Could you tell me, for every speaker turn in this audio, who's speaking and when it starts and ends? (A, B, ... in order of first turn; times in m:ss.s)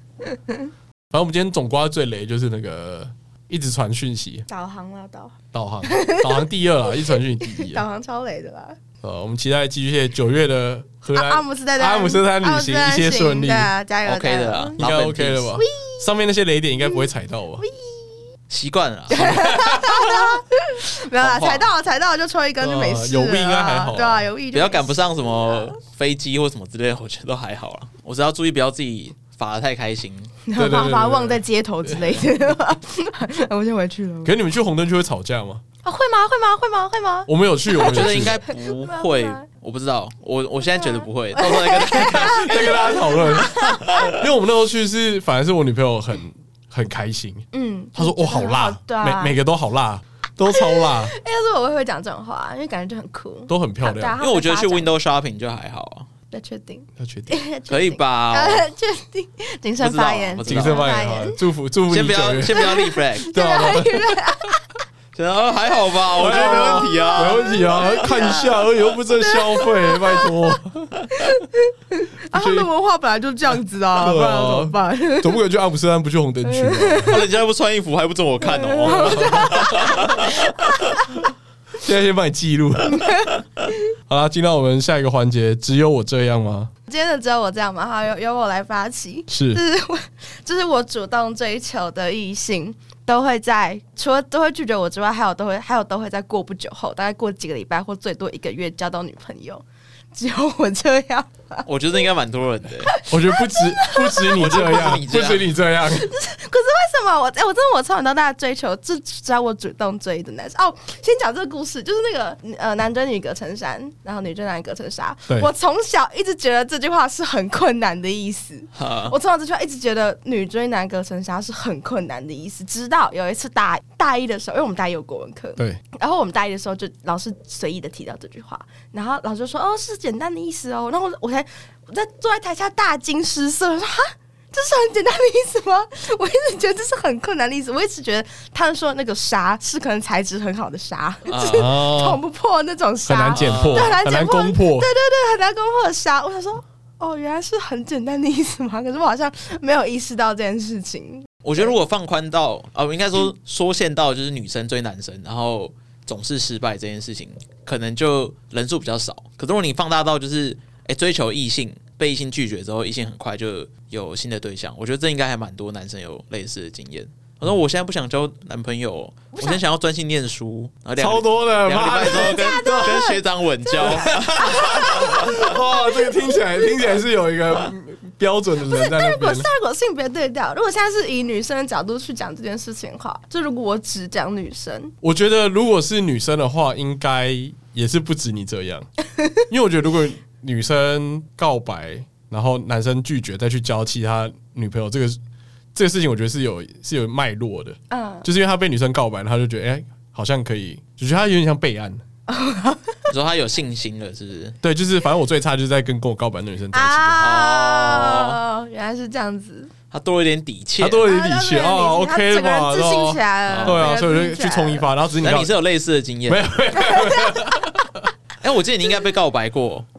0:01.1-0:04.5 A
0:04.5-0:08.8 B
0:05.5-0:07.8 A
0:09.0-0:13.7 A
0:11.1-0:14.8 B
0:14.0-0:15.6 C
0:14.8-0:17.7 A
0:15.6-0:16.1 B
0:16.8-0:17.1 B
0:17.6-0:18.2 B
0:18.5-0:19.6 C
0:19.1-0:25.8 B
0:19.3-0:20.3 A
0:21.2-0:21.7 C
0:22.6-0:24.3 A
0:24.5-0:30.3 C
0:30.4-0:34.4 B
0:30.6-0:32.3 A
0:34.2-0:35.6 A
0:35.8-0:39.4 B
0:37.3-0:38.4 A
0:37.7-0:44.2 C
0:40.8-0:44.2 B
0:42.0-0:47.4 A
0:47.5-0:49.4 B
0:48.0-0:51.1 A
0:50.5-0:55.0 B
0:53.5-0:54.2 A
0:54.2-0:56.1 C
0:56.3-1:01.4 B
0:57.0-0:57.4 A
0:57.7-0:58.7 C
0:59.8-1:00.9 C
1:00.5-1:04.6 A
1:01.9-1:03.4 C
1:02.5-1:04.6 B
1:05.1-1:08.6 C
1:06.1-1:10.5 B
1:06.1-1:11.4 A
1:11.1-1:15.4 B
1:12.3-1:12.7 A
1:14.0-1:17.2 A
1:16.4-1:17.3 B
1:17.1-1:21.0 C
1:18.4-1:21.1 B
1:18.8-1:20.2 A
1:21.8-1:23.2 A
1:22.9-1:23.4 B
1:24.1-1:26.7 A
1:26.9-1:41.7 B
1:29.3-1:29.6 A
1:41.7-1:43.0 C
1:42.9-1:44.6 B
1:43.1-1:46.1 A
1:44.3-1:45.5 C
1:45.8-2:31.7 B
1:58.8-1:59.2 C
2:21.3-2:21.8 C
2:21.5-2:22.2 A
2:23.1-2:24.9 A
2:23.3-2:24.0 C
2:31.4-2:55.4 C
2:51.0-2:53.1 A
2:52.1-2:56.9 B
2:53.8-2:59.5 A
2:58.7-3:04.9 B
3:05.0-3:08.9 A
3:09.5-3:15.2 A
3:15.8-3:22.0 A
3:17.9-3:18.3 B
3:22.3-3:23.0 B
3:23.1-3:24.6 C
3:24.6-3:27.4 A
3:26.7-3:29.7 B
3:27.2-3:28.4 C
3:29.9-3:31.0 C
3:30.8-3:35.6 A
3:31.0-3:34.9 B
3:33.5-3:34.0 C
3:35.2-3:36.5 C
3:36.3-3:38.1 A
3:36.8-3:37.3 B
3:38.4-3:39.9 C